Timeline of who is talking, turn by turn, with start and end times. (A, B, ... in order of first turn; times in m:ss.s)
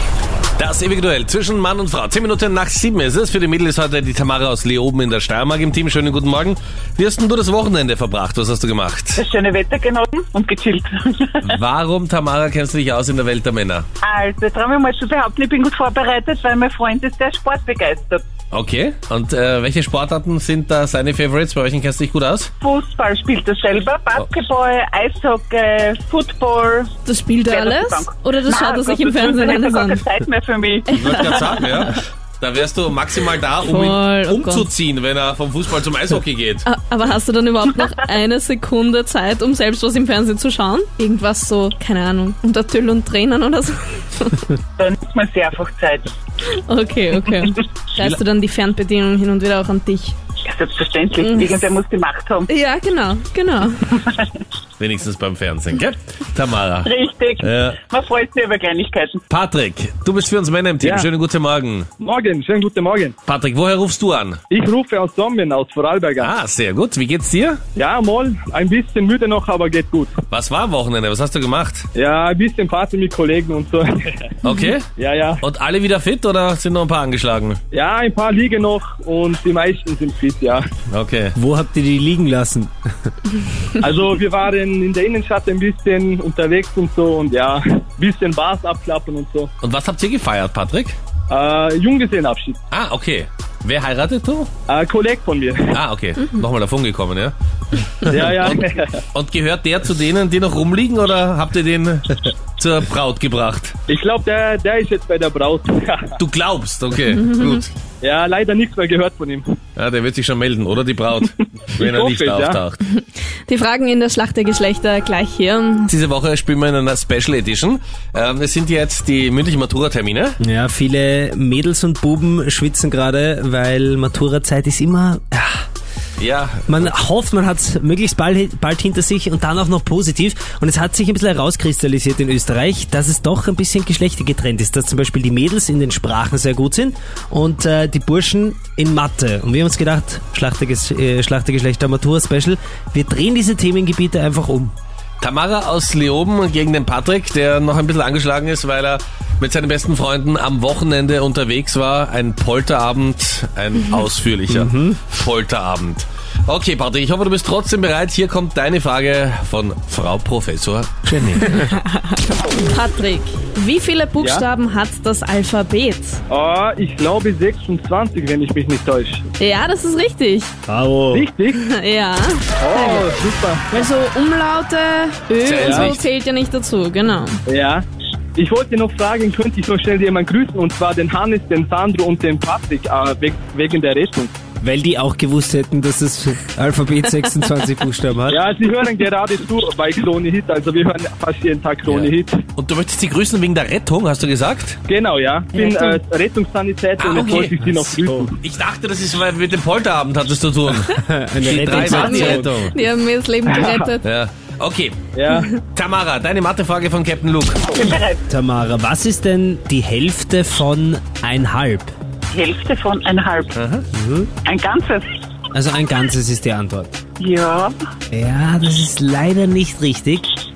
0:00.6-0:09.2 A
0:09.1-0:11.6 B
0:11.4-0:13.8 A
0:14.0-0:18.2 B
0:18.5-0:22.5 A
0:22.6-0:26.9 B
0:27.0-0:30.0 C
0:27.4-0:31.4 B
0:30.9-0:31.9 C
0:30.9-0:36.7 A
0:33.6-0:34.7 C
0:36.6-0:44.5 C
0:44.8-0:46.1 B
0:46.6-0:50.2 C
0:50.4-0:52.5 B
0:51.2-0:51.6 C
0:52.5-0:54.0 C
0:54.0-0:54.3 B
0:54.8-0:56.9 A
0:56.8-0:59.2 B
0:57.4-0:57.8 A
0:59.3-1:01.9 A
1:00.8-1:01.1 D
1:02.0-1:03.2 D
1:03.3-1:04.4 A
1:04.5-1:06.3 D
1:06.2-1:07.6 A
1:07.8-1:10.1 D
1:10.3-1:11.9 A
1:11.9-1:14.3 D
1:14.4-1:14.9 A
1:15.0-1:15.4 D
1:15.4-1:17.6 A
1:17.7-1:20.6 D
1:20.9-1:21.3 A
1:21.3-1:22.7 E
1:23.8-1:29.5 D
1:29.6-1:31.0 A
1:31.3-1:32.6 D
1:32.7-1:34.5 A
1:34.7-1:35.8 D
1:35.7-1:37.3 A
1:38.0-1:43.7 A
1:38.1-1:39.0 D
1:43.9-1:46.2 D
1:46.2-1:47.7 A
1:47.1-1:47.6 C
1:48.0-1:49.5 D
1:49.8-1:52.8 A
1:51.7-1:52.6 D
1:52.9-1:55.9 C
1:55.9-2:00.4 A
2:00.4-2:05.6 E
2:06.2-2:06.9 A
2:06.7-2:24.7 E
2:25.2-2:41.5 A
2:34.5-2:35.1 E
2:41.1-2:41.7 E
2:42.6-2:46.2 C
2:44.2-2:44.4 D
2:46.3-2:49.2 D
2:49.4-2:50.5 C
2:50.7-2:51.3 E
2:51.1-2:51.6 D
2:51.5-2:53.1 C
2:52.6-2:53.8 D
2:53.7-2:57.4 C
2:55.4-2:56.0 A
2:55.6-2:55.9 D
2:57.5-3:04.3 D
3:04.6-3:08.4 E
3:08.3-3:12.4 D
3:11.8-3:14.8 A
3:14.9-3:18.4 D
3:15.5-3:16.0 C
3:17.0-3:17.5 A
3:17.6-3:18.3 E
3:18.4-3:22.7 A
3:20.9-3:22.5 E
3:21.7-3:24.0 C
3:23.5-3:23.8 D
3:24.0-3:25.0 A
3:25.1-3:25.5 D
3:25.3-3:25.6 C
3:25.7-3:27.6 A
3:27.7-3:28.2 B
3:28.3-3:31.9 E
3:32.3-3:33.6 B
3:33.5-3:33.8 A
3:33.9-3:34.3 E
3:34.4-3:35.1 B
3:35.5-3:37.0 E
3:37.2-3:37.7 B
3:38.1-3:40.3 E